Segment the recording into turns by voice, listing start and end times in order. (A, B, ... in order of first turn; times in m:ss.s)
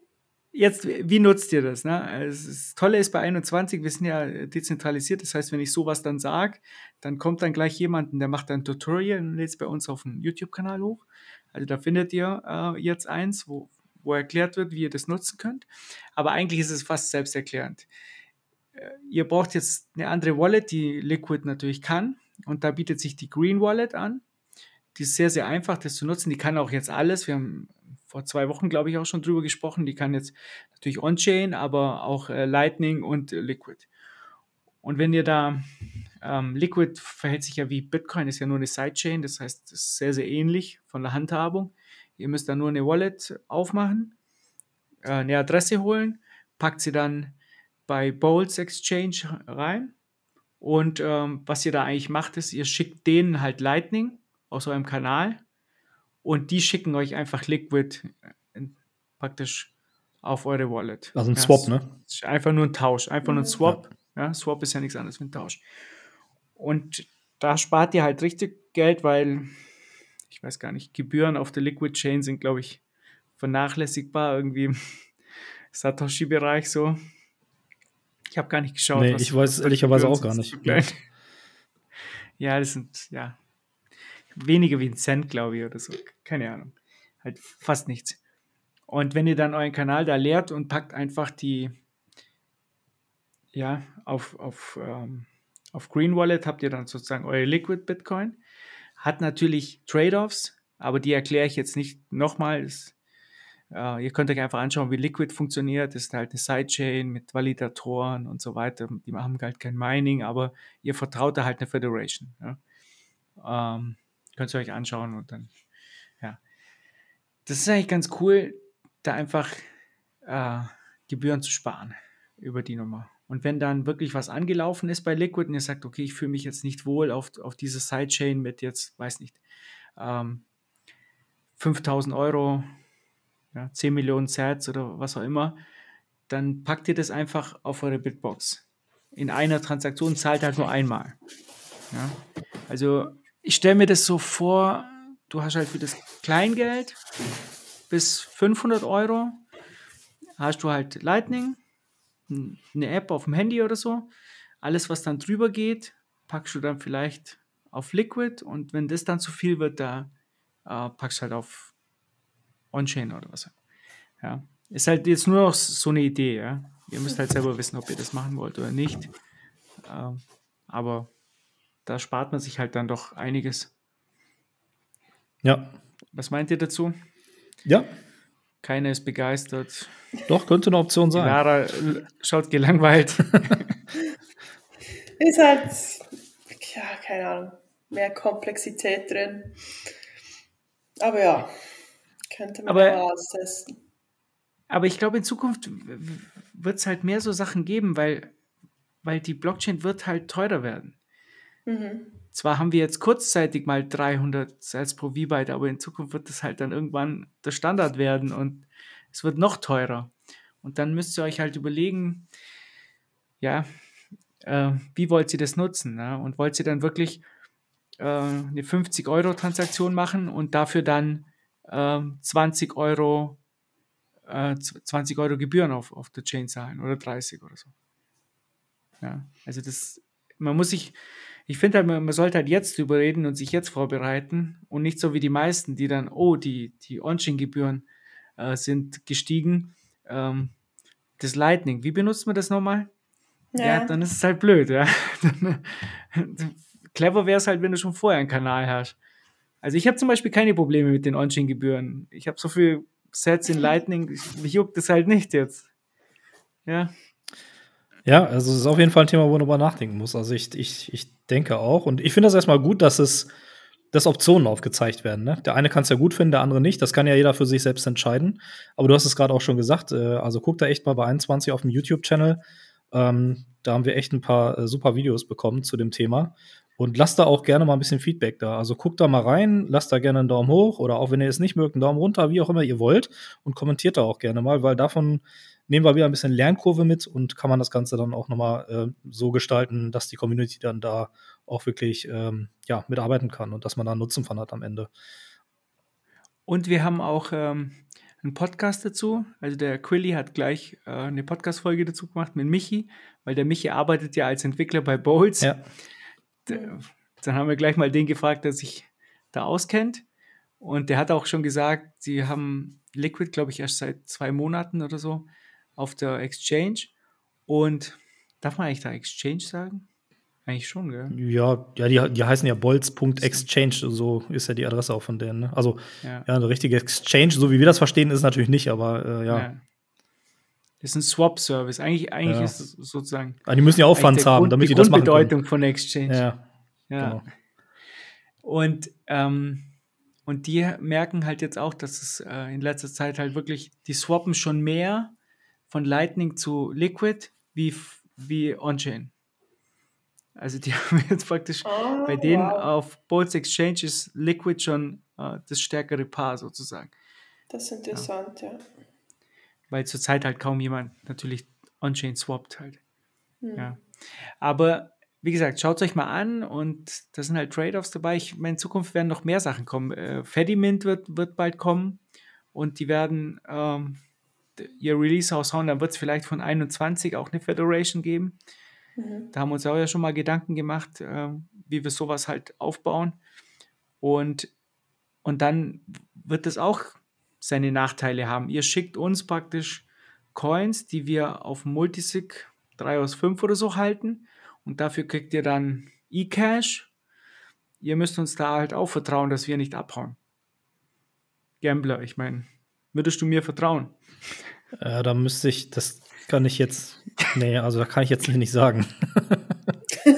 0:00.5-0:15.6 A
0:16.2-0:17.9 A
0:18.8-0:24.2 A
0:25.0-0:33.9 A
0:34.8-0:44.1 A
0:45.0-0:47.3 A
0:47.9-0:49.9 A
0:50.6-0:55.4 A
0:56.2-0:59.7 A
1:00.2-1:05.6 A
1:01.1-1:01.9 B
1:06.6-1:09.7 A
1:10.3-1:12.8 A
1:13.4-1:15.1 A
1:15.7-1:17.0 A
1:18.3-1:21.0 A
1:18.9-1:20.8 B
1:22.4-1:23.4 A
1:24.3-1:28.2 A
1:28.9-1:31.8 A
1:33.5-1:38.4 A
1:39.0-1:42.9 A
1:43.7-1:52.6 A
1:53.4-1:55.5 A
1:57.4-1:59.7 A
2:00.2-2:09.4 A
2:10.0-2:10.4 A
2:11.6-2:12.8 A
2:13.5-2:15.6 A
2:16.3-2:18.6 A
2:19.1-2:21.2 A
2:21.9-2:27.0 A
2:27.9-2:29.4 A
2:30.4-2:31.6 A
2:32.3-2:34.1 A
2:34.6-2:40.1 A
2:40.7-2:41.7 A
2:42.7-2:43.6 A
2:44.2-2:49.1 A
2:49.8-2:51.1 A
2:51.8-2:53.7 A
2:55.4-2:55.7 B
2:56.1-2:57.0 A
2:57.6-2:57.9 B
2:58.6-2:59.9 A
3:00.3-3:01.4 B
3:01.1-3:03.7 A
3:05.2-3:09.6 C
3:11.0-3:11.6 C
3:12.3-3:13.7 C
3:12.7-3:13.0 A
3:14.7-3:18.3 A
3:19.0-3:21.0 A
3:21.7-3:22.1 C
3:22.3-3:30.1 A
3:30.6-3:32.3 A
3:33.4-3:33.7 A
3:34.4-3:37.2 A
3:38.0-3:43.4 A
3:44.3-3:47.7 A
3:49.0-3:51.0 A
3:51.5-3:57.9 A
3:58.4-4:00.5 A
4:01.2-4:02.9 A
4:03.5-4:03.9 C
4:03.6-4:09.0 A
4:09.6-4:15.7 A
4:16.7-4:16.9 A
4:18.1-4:23.3 B
4:23.9-4:32.4 B
4:32.9-4:54.9 B
4:56.5-5:05.6 A
5:06.4-5:10.0 A
5:06.5-5:06.8 C
5:10.6-5:16.9 A
5:17.5-5:19.8 A
5:20.4-5:21.2 A
5:21.1-5:29.5 B
5:29.3-5:29.6 A
5:30.8-5:33.4 A
5:32.2-5:32.5 B
5:33.4-5:35.4 B
5:33.9-5:36.2 A
5:36.1-5:36.4 B
5:36.9-5:37.2 A
5:38.4-5:39.7 A
5:40.3-5:45.1 A
5:45.7-5:49.1 A
5:50.4-5:56.9 A
5:51.6-5:52.7 C
5:57.5-5:58.6 C
5:59.7-6:02.8 A
6:03.4-6:03.7 C
6:03.6-6:12.0 A
6:12.5-6:14.0 A
6:14.6-6:18.4 A
6:19.0-6:19.3 C
6:19.3-6:23.2 A
6:24.0-6:24.5 A
6:25.2-6:36.9 A
6:37.8-6:40.2 A
6:41.6-6:44.0 A
6:44.8-6:49.6 B